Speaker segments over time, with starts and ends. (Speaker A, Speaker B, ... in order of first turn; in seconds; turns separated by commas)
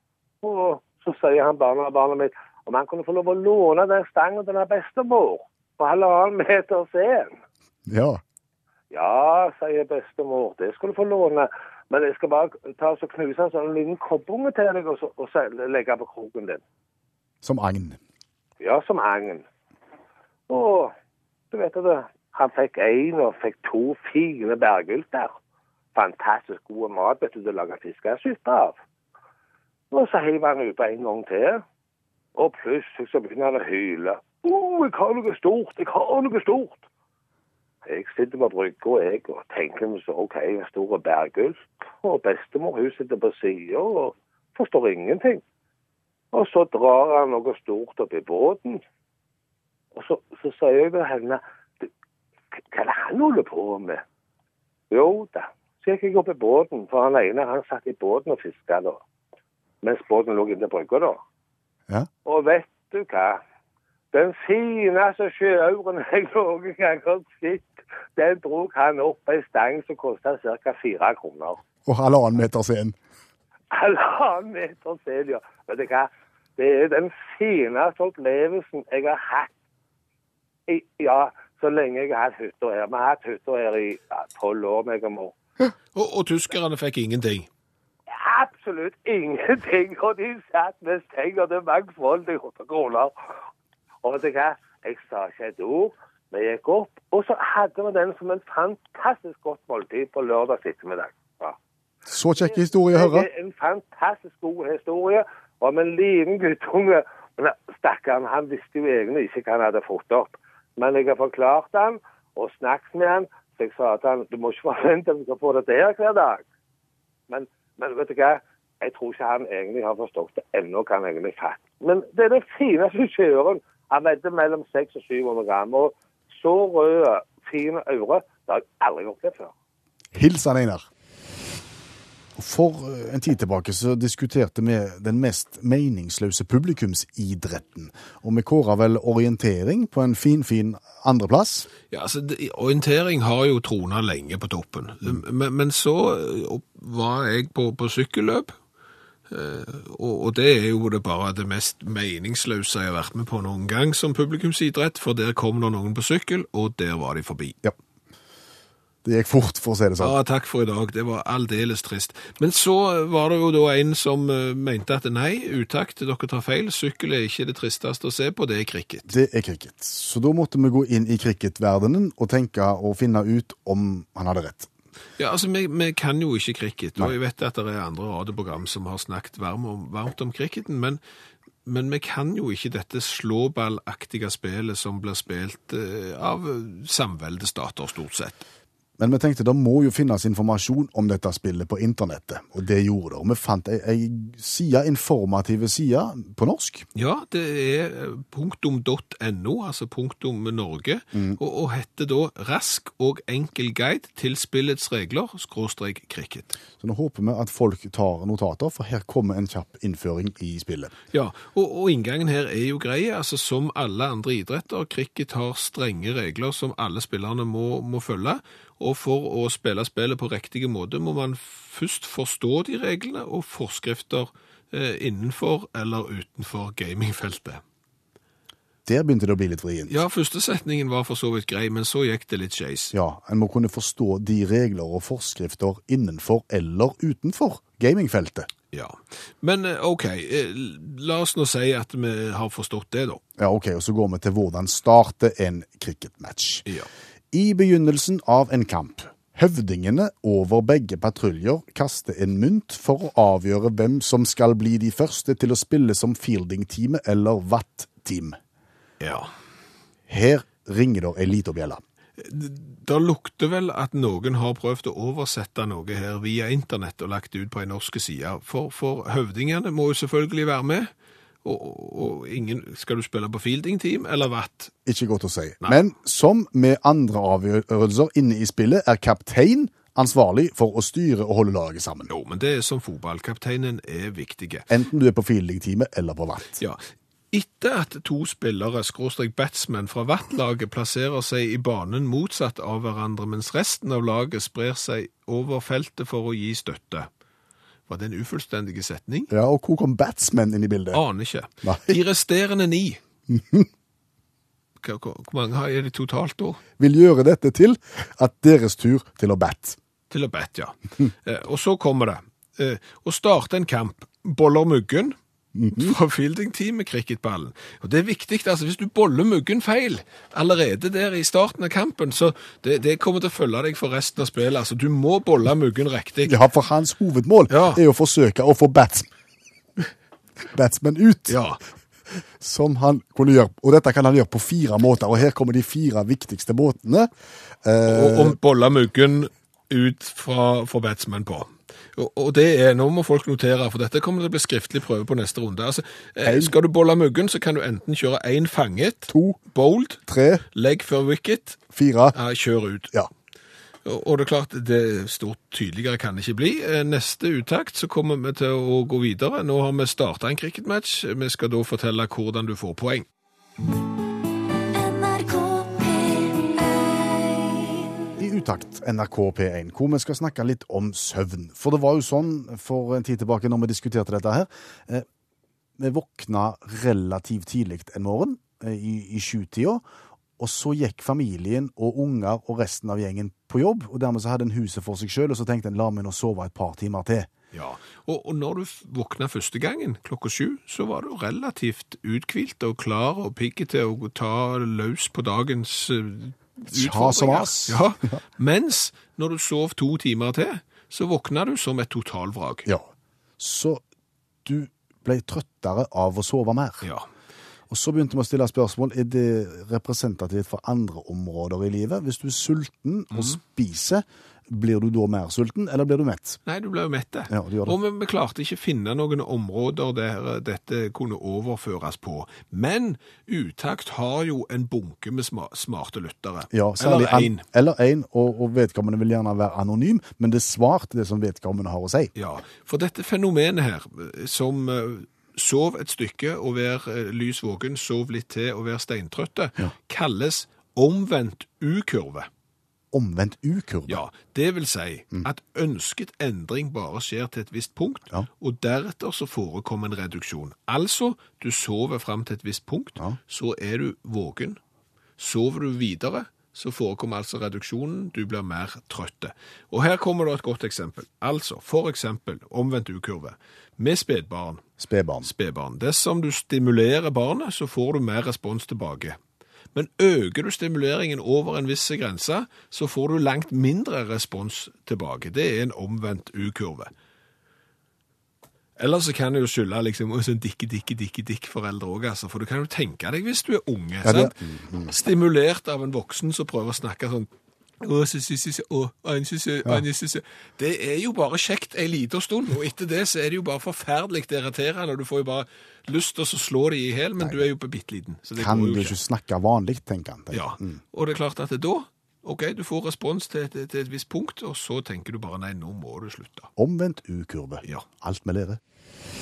Speaker A: 0.4-7.4, Speaker B: 7.9-8.2, Speaker A: 8.9-16.6, Speaker B: 17.4-18.0, Speaker A: 18.6-19.4, Speaker A: 20.5-20.9, Speaker A: 21.5-25.4, Speaker A: 25.9-28.8, Speaker A: 29.9-31.6, Speaker A: 32.4-36.8, Speaker A: 37.8-45.4, Speaker A: 46.3-48.8, Speaker A: 49.9-51.9, Speaker A: 52.6-54.0, Speaker A: 54.9-59.0, Speaker A: 59.8-61.2, Speaker A: 62.2-63.4, Speaker A: 64.1-71.6, Speaker B: 71.8-73.0, Speaker A: 73.7-79.5, Speaker A: 80.7-85.3, Speaker C: 85.9-87.5, Speaker A: 88.1-93.1, Speaker A: 94.0-101.6, Speaker B: 102.1-103.3, Speaker A: 102.4-116.4, Speaker A: 117.3-129.5, Speaker B: 130.1-130.9, Speaker B: 132.3-141.7, Speaker C: 141.9-148.5, Speaker C: 149.3-157.6, Speaker B: 159.0-160.2, Speaker C: 160.0-169.1, Speaker B: 169.1-174.7, Speaker C: 175.2-181.0, Speaker C: 181.7-188.4, Speaker B: 189.0-196.8, Speaker C: 196.9-206.5, Speaker B: 201.1-201.4, Speaker B: 206.8-210.9, Speaker C: 211.1-227.6, Speaker B: 228.8-230.0, Speaker C: 229.9-232.9, Speaker B: 232.9-238.5, Speaker C: 238.7-243.2, Speaker B: 243.4-246.7, Speaker B: 247.3-258.4, Speaker C: 259.0-259.3, Speaker B: 260.1-261.8, Speaker C: 262.2-270.9, Speaker C: 271.4-274.7, Speaker B: 274.9-282.1, Speaker C: 282.1-284.7, Speaker B: 284.7-286.6, Speaker C: 287.3-297.1, Speaker C: 297.9-299.3, Speaker B: 299.3-301.0, Speaker C: 300.9-303.0, Speaker B: 301.6-302.0, Speaker B: 303.3-303.7, Speaker C: 304.8-306.6, Speaker B: 306.8-309.8, Speaker C: 310.1-315.1, Speaker B: 315.5-315.9, Speaker C: 315.7-326.4, Speaker B: 326.2-329.1, Speaker C: 327.5-327.8, Speaker B: 330.5-331.4, Speaker C: 331.3-331.6, Speaker B: 332.4-337.1, Speaker B: 337.6-338.4, Speaker C: 337.9-350.0, Speaker B: 346.2-346.5, Speaker B: 349.1-349.4, Speaker B: 350.0-350.4, Speaker C: 350.5-351.6, Speaker B: 351.7-352.2, Speaker C: 352.1-352.9, Speaker C: 353.8-363.1, Speaker D: 364.6-367.4, Speaker B: 368.2-375.0, Speaker B: 375.8-379.8, Speaker B: 380.4-387.3, Speaker C: 387.5-402.7, Speaker B: 396.7-398.2, Speaker B: 402.6-403.8, Speaker B: 404.4-406.9, Speaker B: 407.7-416.4, Speaker C: 413.1-413.4, Speaker C: 416.4-427.4, Speaker B: 417.3-417.8, Speaker B: 426.5-432.1, Speaker C: 432.1-442.3, Speaker B: 442.9-444.0, Speaker C: 443.9-454.6, Speaker C: 455.2-464.6, Speaker B: 464.8-465.3, Speaker C: 465.2-469.2, Speaker C: 469.7-476.9, Speaker C: 478.8-484.3, Speaker B: 484.0-484.9, Speaker C: 484.9-487.3, Speaker C: 487.8-498.9, Speaker B: 498.4-500.8, Speaker C: 500.3-506.5, Speaker B: 506.6-508.6